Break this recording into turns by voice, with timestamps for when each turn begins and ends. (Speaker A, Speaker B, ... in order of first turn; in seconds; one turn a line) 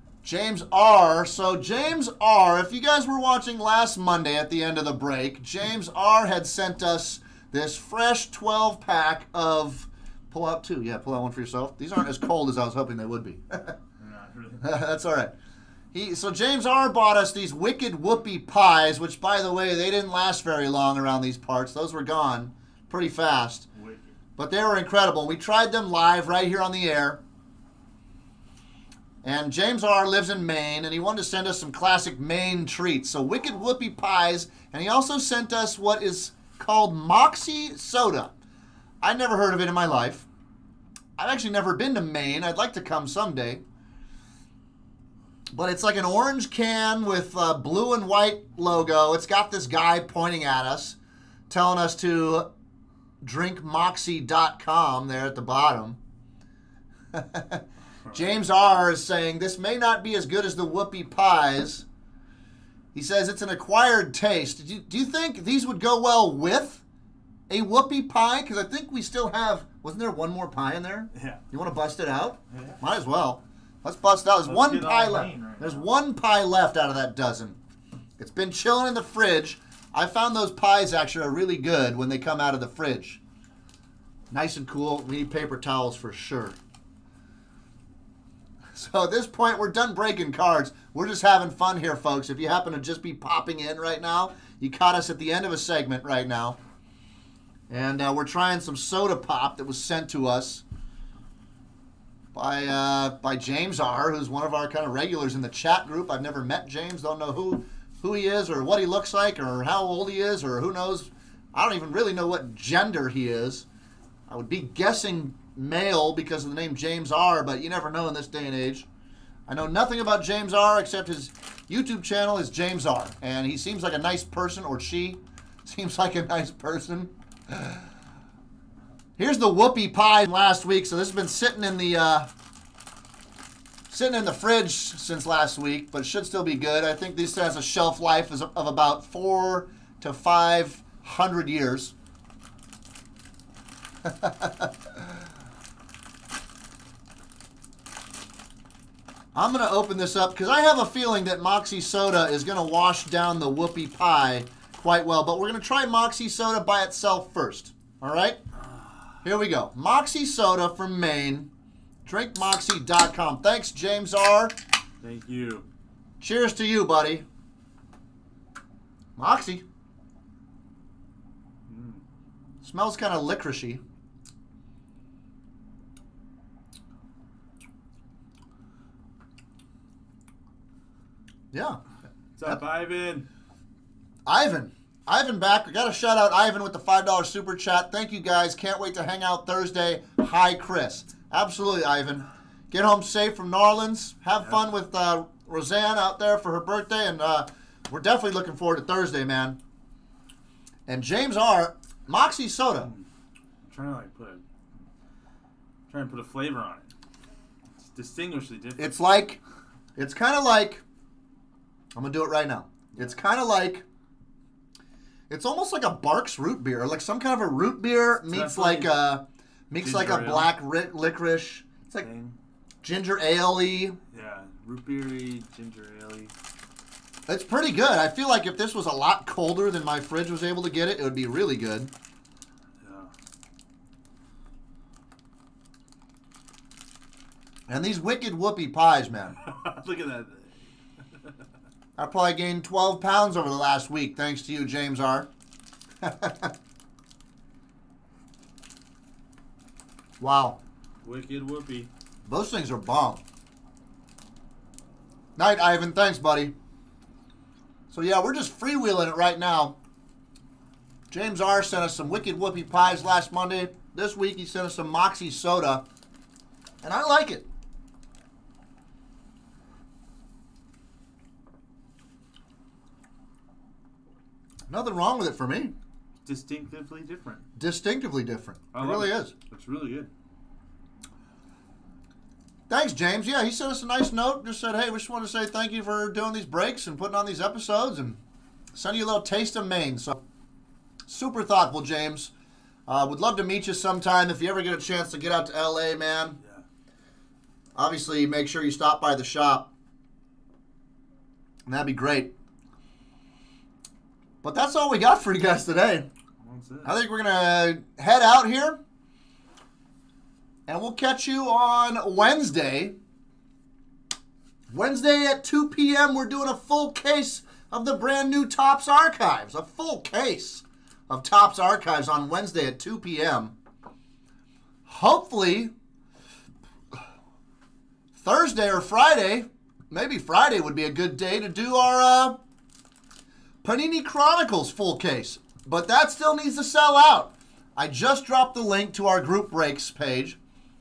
Speaker A: 0.2-13.8
Speaker B: 14.0-14.6
Speaker A: 14.6-15.3
Speaker A: 15.9-23.7
Speaker B: 23.7-24.1
Speaker A: 24.4-27.2
Speaker A: 29.2-38.3
Speaker A: 39.0-40.3
Speaker A: 41.2-43.6
Speaker A: 45.5-51.0
Speaker A: 51.5-52.5
Speaker A: 53.2-56.0
Speaker A: 57.1-61.9
Speaker A: 62.9-66.8
Speaker A: 67.5-77.6
Speaker B: 72.5-72.8
Speaker B: 74.4-75.8
Speaker A: 78.2-83.2
Speaker A: 84.3-86.5
Speaker A: 88.7-96.6
Speaker A: 97.7-100.6
Speaker A: 102.3-113.7
Speaker A: 114.3-118.9
Speaker A: 119.5-127.8
Speaker A: 129.2-132.3
Speaker A: 133.9-141.9
Speaker A: 144.0-144.7
Speaker A: 149.3-158.4
Speaker A: 159.2-161.5
Speaker A: 162.0-164.5
Speaker B: 165.0-165.7
Speaker A: 166.2-167.2
Speaker A: 169.2-169.6
Speaker B: 171.7-172.0
Speaker A: 172.6-173.8
Speaker A: 181.5-181.8
Speaker B: 182.4-183.3
Speaker A: 184.2-199.6
Speaker A: 200.9-202.9
Speaker B: 202.8-203.1
Speaker B: 203.6-204.4
Speaker B: 205.9-206.9
Speaker B: 207.8-208.9
Speaker A: 208.8-209.4
Speaker A: 210.0-210.8
Speaker A: 211.9-213.8
Speaker A: 215.3-222.1
Speaker B: 218.3-218.9
Speaker B: 219.8-220.5
Speaker B: 222.0-222.3
Speaker A: 222.8-224.0
Speaker B: 224.1-226.3
Speaker A: 227.3-231.9
Speaker B: 232.8-233.1
Speaker A: 237.7-239.4
Speaker B: 239.4-240.5
Speaker A: 242.0-245.3
Speaker A: 246.0-246.5
Speaker A: 250.2-250.6
Speaker B: 251.0-251.9
Speaker A: 252.2-253.2
Speaker A: 255.4-256.5
Speaker A: 257.9-259.8
Speaker A: 261.1-265.8
Speaker A: 266.8-267.4
Speaker A: 274.7-275.7
Speaker B: 276.2-277.4
Speaker A: 277.6-279.3
Speaker B: 278.7-280.1
Speaker A: 282.7-288.2
Speaker A: 288.7-290.2
Speaker A: 291.1-292.3
Speaker A: 292.9-296.4
Speaker A: 297.8-299.7
Speaker A: 301.7-302.3
Speaker A: 304.4-306.1
Speaker B: 306.4-306.9
Speaker A: 306.8-308.8
Speaker A: 310.7-312.9
Speaker A: 314.7-323.5
Speaker A: 324.9-325.7
Speaker A: 328.1-332.4
Speaker A: 333.6-340.4